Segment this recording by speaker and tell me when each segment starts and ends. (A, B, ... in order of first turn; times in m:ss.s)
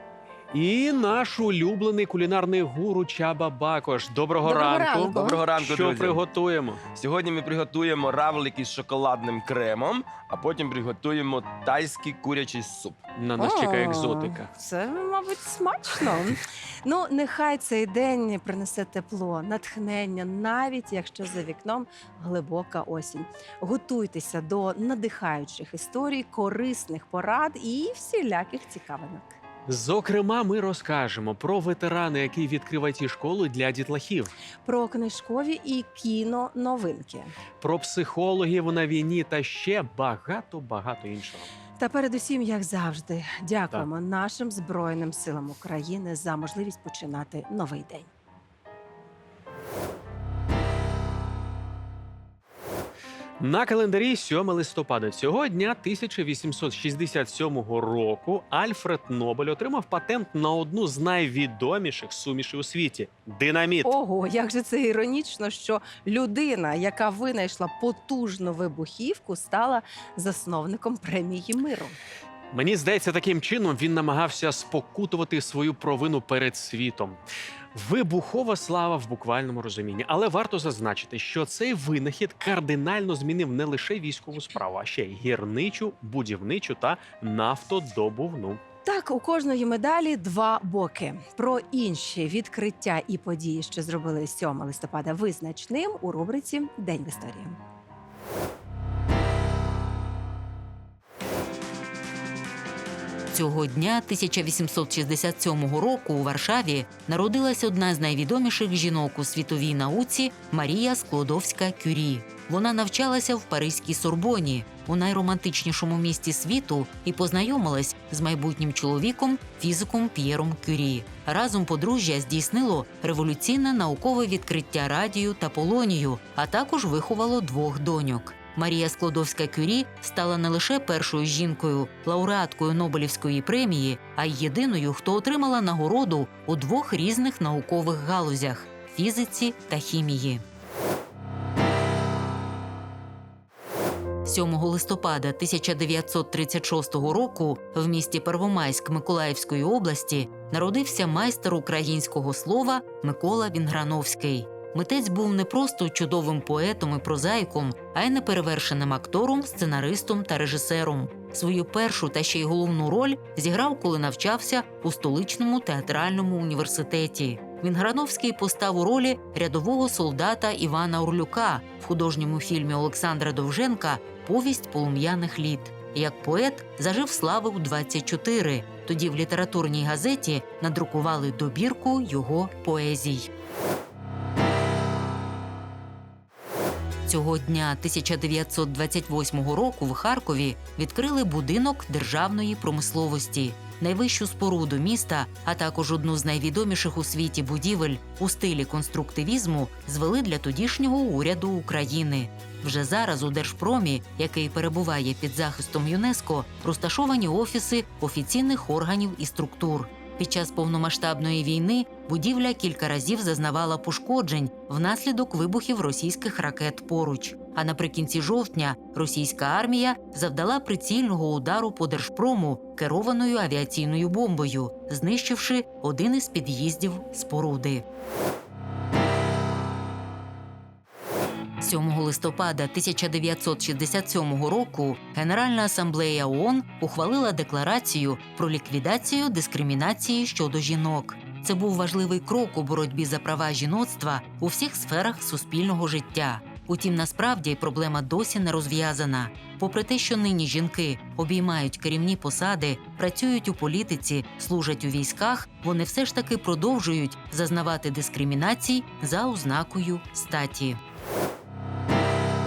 0:00.5-0:06.8 A
0:04.4-0:05.4 B
0:05.1-0:06.3 C
0:06.8-0:13.0 C
0:13.2-0:14.5 A
0:13.4-0:29.4 B
0:29.7-0:34.3 A
0:34.6-0:37.3 B
0:37.6-0:41.5 A
0:41.8-0:48.1 B
0:53.4-1:03.9 A
1:03.8-1:12.0 B
1:12.5-1:17.2 A
1:17.7-1:28.6 A
1:28.8-1:37.6 B
1:43.3-2:20.4 D
2:24.2-3:03.3 D
3:07.1-3:47.8 D
3:51.6-4:20.8 D